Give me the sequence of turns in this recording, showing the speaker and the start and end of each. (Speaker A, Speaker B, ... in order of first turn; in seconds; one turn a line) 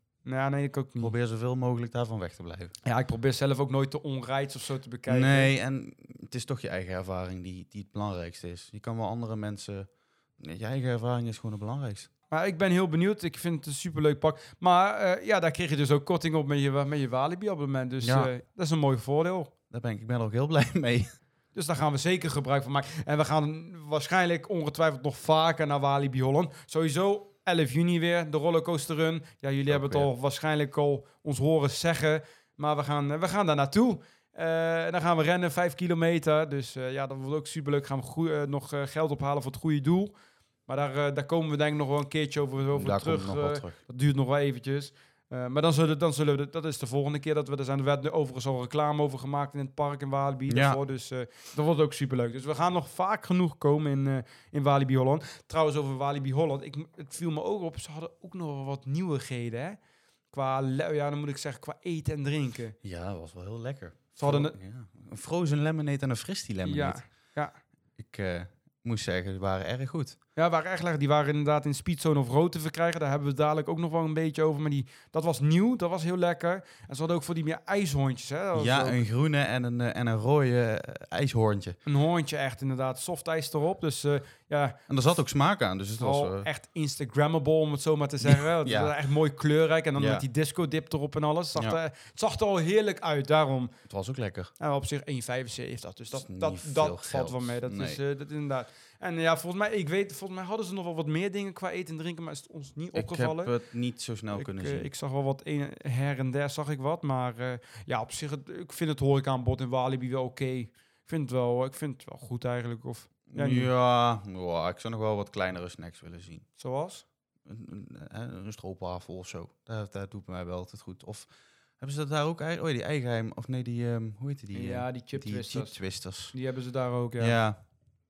Speaker A: 0.2-1.1
Speaker B: 1.0-2.7
Speaker A: 2.9-5.5
Speaker B: 5.1-12.1
Speaker A: 12.3-19.5
Speaker B: 18.0-18.3
Speaker B: 19.7-21.1
Speaker A: 21.5-40.1
Speaker B: 29.7-30.1
Speaker A: 40.7-59.8
Speaker B: 42.8-43.8
Speaker B: 50.5-50.8
Speaker A: 60.3-62.8
Speaker B: 62.8-67.0
Speaker A: 64.2-64.6
Speaker A: 66.6-67.5
Speaker B: 68.0-70.2
Speaker A: 70.4-79.0
Speaker B: 78.5-81.8
Speaker A: 81.9-84.8
Speaker B: 84.9-86.5
Speaker A: 86.0-93.7
Speaker B: 88.2-88.9
Speaker B: 90.0-90.2
Speaker B: 93.9-94.5
Speaker A: 94.6-103.5
Speaker B: 96.1-98.0
Speaker B: 102.9-104.9
Speaker A: 104.3-113.7
Speaker B: 113.3-116.5
Speaker A: 116.6-117.0
Speaker B: 117.5-126.3
Speaker A: 124.5-127.4
Speaker B: 127.2-127.6